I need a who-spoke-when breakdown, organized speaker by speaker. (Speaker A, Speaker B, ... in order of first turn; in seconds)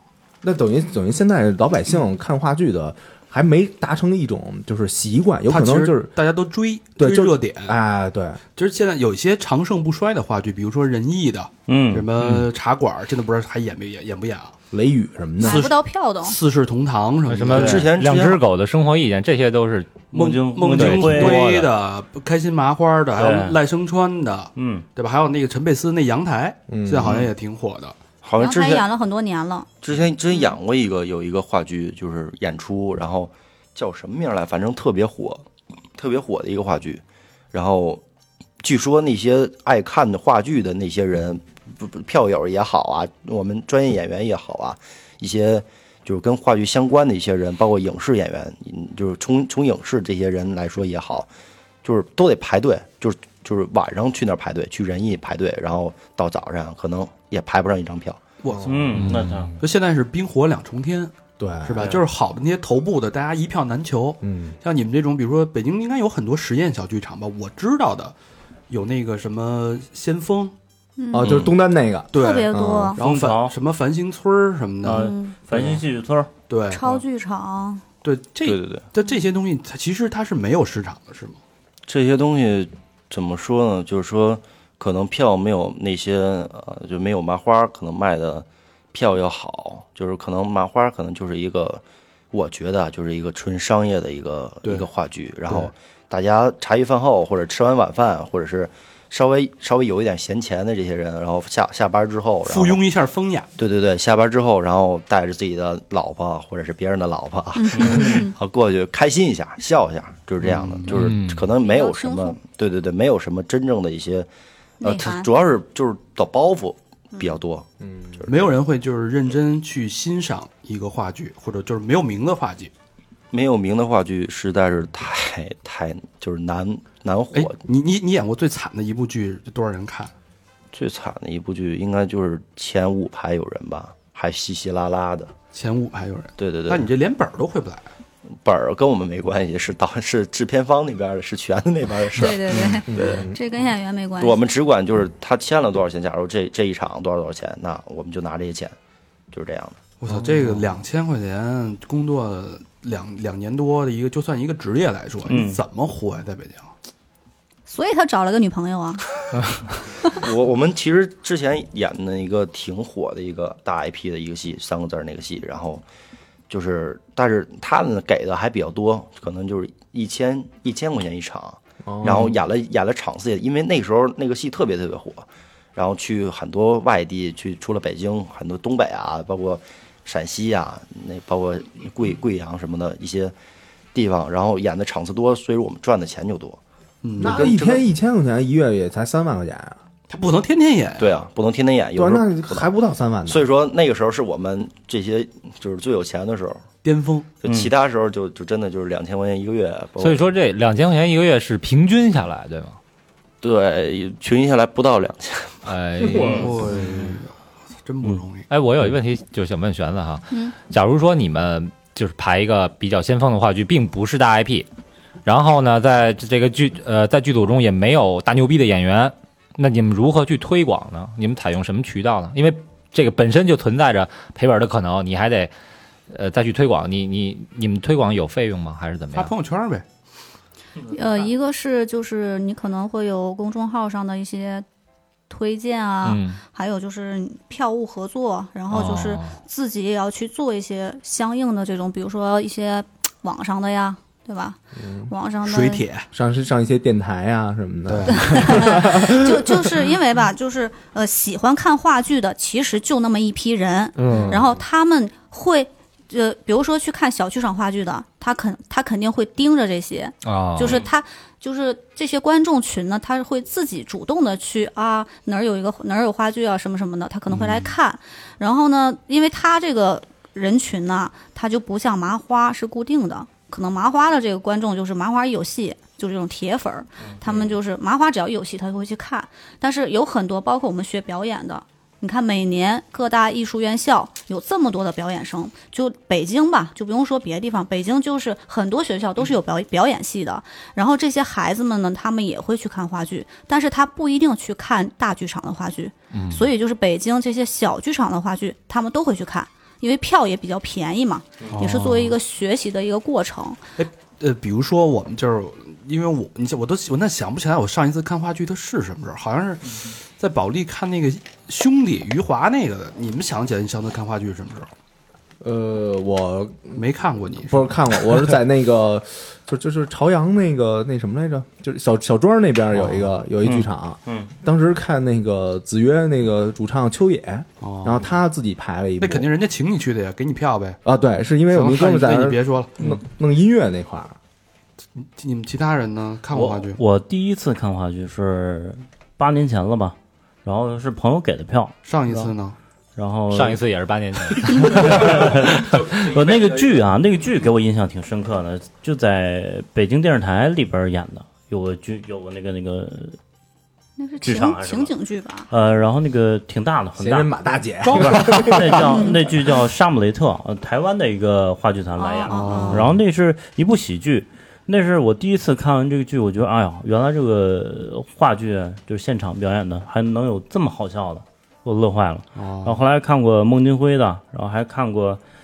Speaker A: 0.4-6.1, 7.0-8.4, 14.7-15.7, 26.7-27.1, 61.4-62.0, 64.2-64.6, 71.1-73.0, 117.8-118.2, 142.9-143.3, 150.1-150.6, 171.8-172.4, 187.2-189.8, 191.9-193.5, 244.8-245.1, 246.1-249.7, 254.0-254.5, 315.4-316.8, 317.4-329.3, 330.9-334.2, 357.0-359.1
Speaker B: 5.5-7.8, 8.6-14.6, 15.4-17.9, 20.1-28.0, 58.4-68.2, 68.7-70.5, 72.1-75.8, 76.5-76.8, 78.0-81.4, 94.6-94.9, 102.5-103.5, 110.4-111.0, 118.3-122.7, 127.3-130.1, 135.5-137.9, 142.5-142.8, 150.0-156.7, 187.0-187.6, 190.1-191.1, 196.8-197.3, 206.1-208.5, 229.1-229.8, 245.4-246.1, 247.9-248.6, 301.5-302.2, 303.8-314.7, 316.7-318.2, 327.6-328.1, 329.0-330.8, 331.5-332.9, 335.0-336.8, 341.9-342.6, 357.8-358.8, 362.2-363.0, 372.4-372.8
Speaker C: 11.7-12.1, 17.5-17.9, 20.1-21.7, 23.1-23.6, 24.6-24.9, 58.6-59.5, 73.0-73.5, 74.8-76.3, 155.3-155.6, 197.4-197.7, 206.1-206.5, 323.4-324.3, 336.3-342.3, 343.0-343.6, 344.3-353.2, 354.2-354.9, 355.5-357.3, 357.9-375.2
Speaker D: 15.4-16.4, 28.4-29.7, 71.0-71.3, 72.1-73.0, 75.0-75.4, 76.7-77.8, 107.6-108.3, 111.6-112.4, 114.8-115.3, 142.1-144.4, 157.7-159.1, 230.9-234.7, 235.3-245.8, 248.1-303.6, 354.0-355.5, 362.0-362.8
Speaker E: 17.3-20.1, 20.8-21.4, 59.0-59.5, 110.9-111.5, 200.0-202.8, 205.7-206.6, 208.5-214.7, 215.2-225.5, 226.1-229.3, 236.0-236.4, 238.7-239.4, 254.0-254.4, 260.2-260.8, 267.3-267.7, 296.1-296.5, 343.3-346.0
Speaker F: 17.5-18.4, 28.2-28.9, 29.8-35.5, 36.0-38.0, 38.6-51.3, 51.8-58.2, 71.2-71.5, 78.4-78.8, 81.9-102.8, 103.6-114.3, 114.8-118.5, 123.3-127.6, 130.7-135.3, 136.4-136.9, 138.4-143.2, 144.2-148.8, 149.3-149.8, 160.0-165.8, 166.5-183.3, 183.9-186.6, 187.2-187.9, 191.0-192.7, 193.3-196.7, 197.4-200.3, 203.4-205.6